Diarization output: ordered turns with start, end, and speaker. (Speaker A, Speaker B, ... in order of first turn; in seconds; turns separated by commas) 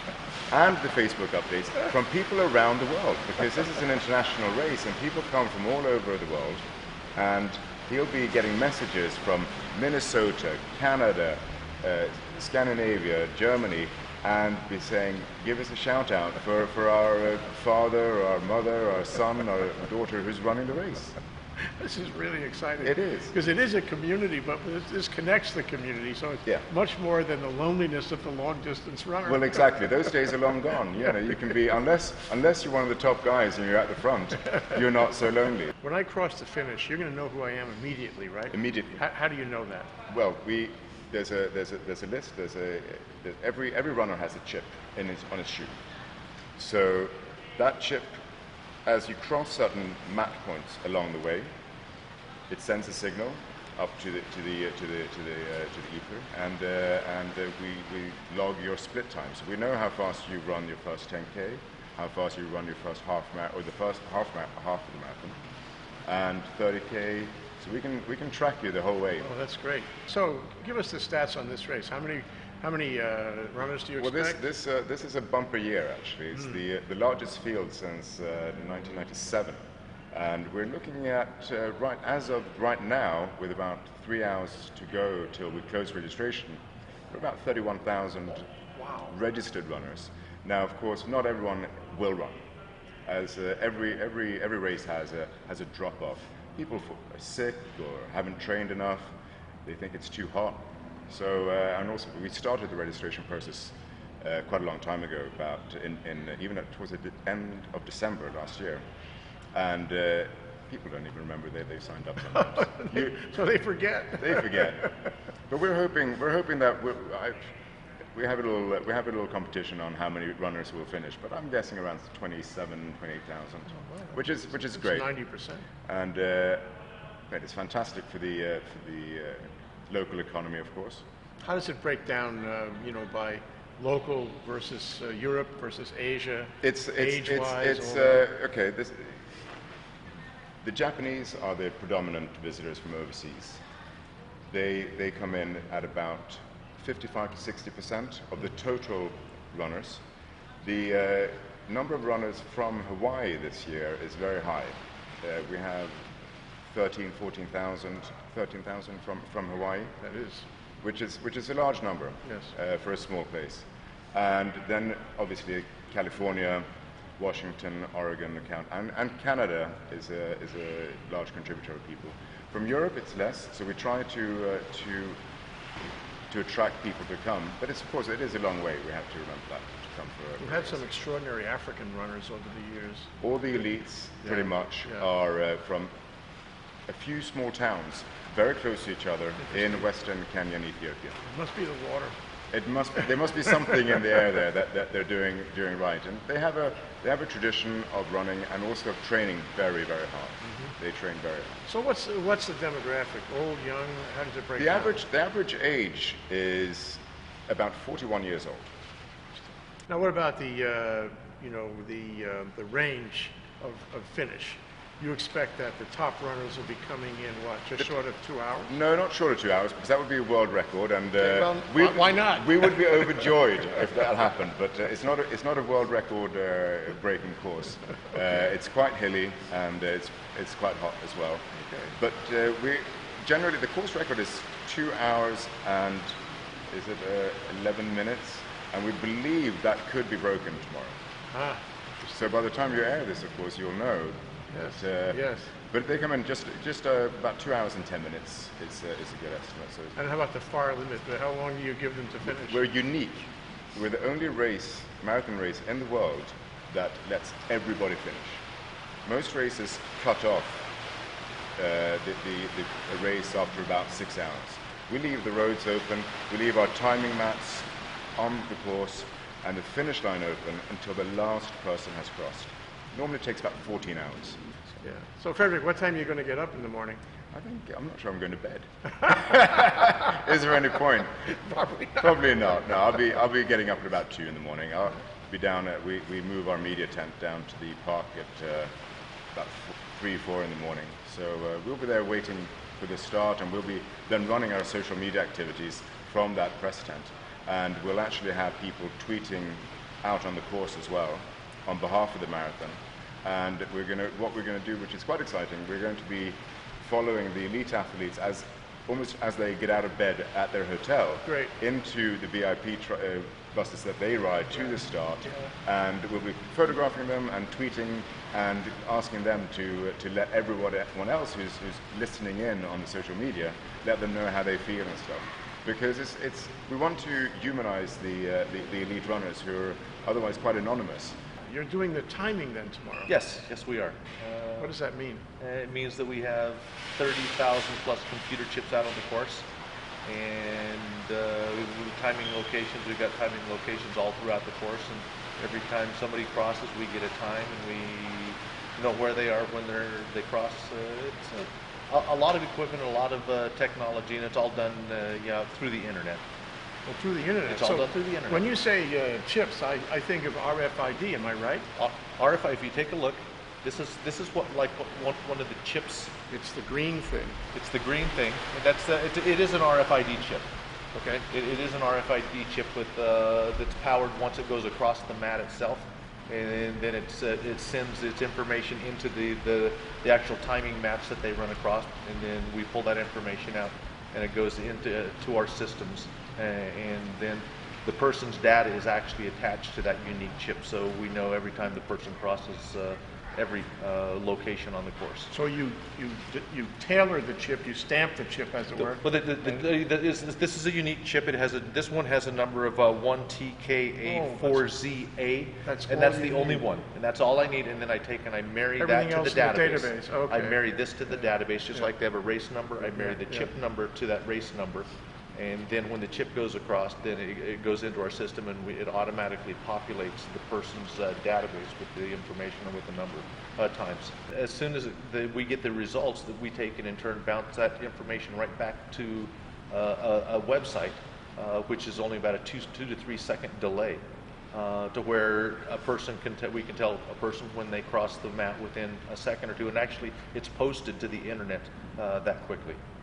Speaker A: 0.5-21.2, Speaker B: 21.8-29.8, Speaker A: 22.8-23.4, Speaker A: 29.2-35.7, Speaker B: 35.8-39.9, Speaker A: 38.5-39.0, Speaker A: 40.1-45.8, Speaker A: 46.6-48.2, Speaker A: 48.9-51.5, Speaker A: 52.5-65.4, Speaker A: 66.0-69.3, Speaker B: 69.2-74.4, Speaker A: 74.0-88.5, Speaker A: 89.0-92.5, Speaker A: 93.0-108.8, Speaker A: 109.5-113.4, Speaker B: 112.3-114.9, Speaker A: 114.1-117.5, Speaker A: 118.1-125.1, Speaker B: 123.8-125.7, Speaker A: 125.8-126.8, Speaker A: 127.3-131.1, Speaker B: 131.4-138.3, Speaker A: 136.6-139.3, Speaker A: 140.6-143.6, Speaker A: 144.5-150.0, Speaker A: 150.6-160.0, Speaker B: 160.0-160.5, Speaker A: 160.8-166.7, Speaker B: 162.2-162.5, Speaker A: 167.2-175.2, Speaker A: 176.3-180.8, Speaker B: 180.4-183.1, Speaker A: 183.2-185.9, Speaker B: 184.2-185.1, Speaker A: 186.9-191.2, Speaker B: 191.3-192.2, Speaker A: 192.5-201.7, Speaker B: 200.5-200.7, Speaker B: 201.7-205.0, Speaker A: 204.6-208.7, Speaker B: 209.9-218.7, Speaker A: 218.7-241.0, Speaker B: 221.2-223.2, Speaker B: 231.6-231.9, Speaker B: 241.3-242.2, Speaker A: 242.1-250.0, Speaker B: 244.5-245.5, Speaker B: 250.0-252.6, Speaker A: 252.3-258.4, Speaker A: 259.1-260.7, Speaker A: 261.6-274.4, Speaker B: 274.8-277.0, Speaker A: 277.3-288.8, Speaker B: 281.5-281.9, Speaker A: 289.3-331.2, Speaker B: 311.3-311.5, Speaker B: 331.5-333.1, Speaker C: 333.1-334.8, Speaker B: 334.6-335.2, Speaker C: 335.4-339.5, Speaker C: 340.1-356.2, Speaker B: 356.9-361.7, Speaker C: 357.5-358.5, Speaker C: 361.8-366.1, Speaker B: 366.3-367.4, Speaker C: 367.5-395.3, Speaker B: 395.3-399.0, Speaker C: 398.8-442.8, Speaker B: 404.1-404.6, Speaker B: 405.7-406.6, Speaker B: 408.8-410.6, Speaker B: 413.0-413.5